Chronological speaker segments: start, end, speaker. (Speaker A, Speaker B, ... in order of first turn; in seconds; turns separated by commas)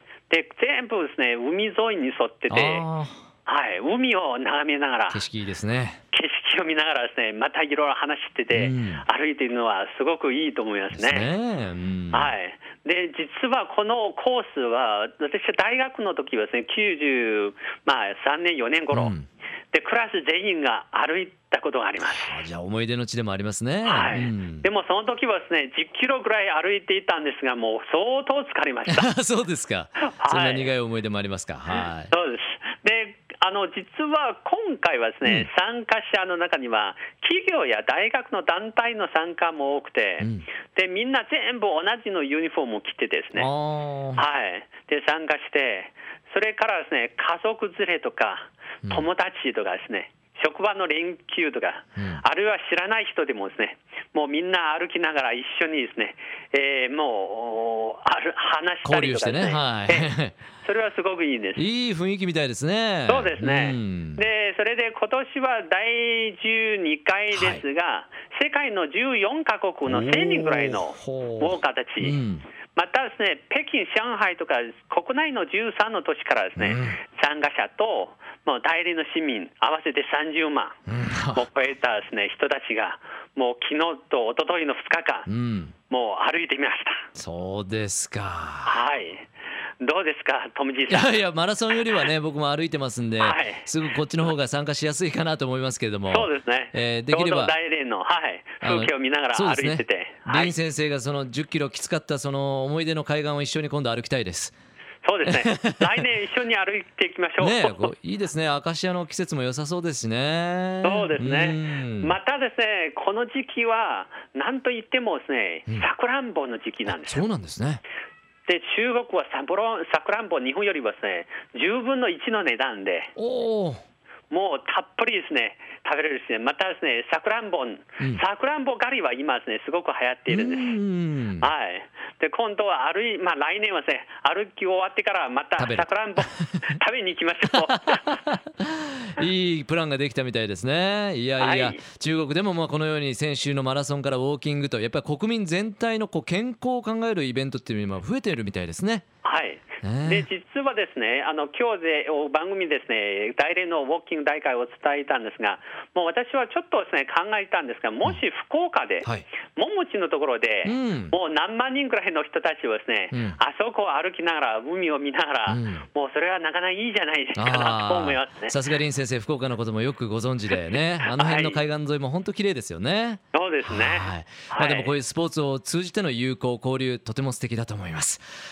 Speaker A: 0.3-2.9, Speaker B: 2.5-3.3, Speaker A: 3.5-5.2, Speaker B: 5.1-6.0, Speaker A: 6.1-11.3, Speaker B: 8.5-9.0, Speaker B: 10.9-12.3, Speaker A: 12.1-19.1, Speaker B: 18.9-19.2, Speaker A: 19.7-22.4, Speaker B: 22.0-24.7, Speaker A: 23.9-29.1, Speaker B: 28.9-32.1, Speaker A: 30.0-30.7, Speaker A: 32.1-43.5, Speaker B: 40.2-40.5, Speaker B: 43.3-44.2, Speaker A: 44.1-61.6, Speaker B: 52.0-52.2, Speaker B: 58.8-60.4, Speaker B: 61.5-64.2, Speaker A: 63.0-72.2, Speaker B: 67.3-67.6, Speaker B: 69.9-72.4, Speaker A: 72.7-80.8, Speaker B: 76.6-77.0, Speaker B: 80.9-81.4, Speaker A: 81.3-85.3, Speaker B: 85.3-85.7, Speaker A: 85.9-87.1, Speaker B: 87.2-88.8, Speaker A: 88.7-89.2, Speaker A: 89.8-91.1, Speaker B: 90.9-97.5, Speaker A: 93.2-93.7, Speaker A: 96.1-100.5, Speaker B: 98.6-104.5, Speaker A: 105.0-107.9, Speaker B: 105.2-105.8, Speaker B: 107.4-112.1, Speaker A: 110.8-117.3, Speaker B: 116.9-117.8, Speaker A: 118.5-123.1, Speaker B: 123.2-123.8, Speaker A: 124.3-130.8, Speaker B: 130.3-131.5, Speaker A: 131.4-138.1, Speaker B: 135.6-136.8, Speaker B: 137.5-149.0, Speaker A: 141.4-141.8, Speaker A: 149.2-168.6, Speaker B: 149.8-150.3, Speaker B: 160.6-161.1, Speaker B: 163.1-163.4, Speaker B: 165.5-165.8, Speaker B: 167.3-178.2, Speaker A: 171.0-171.6, Speaker A: 173.3-174.9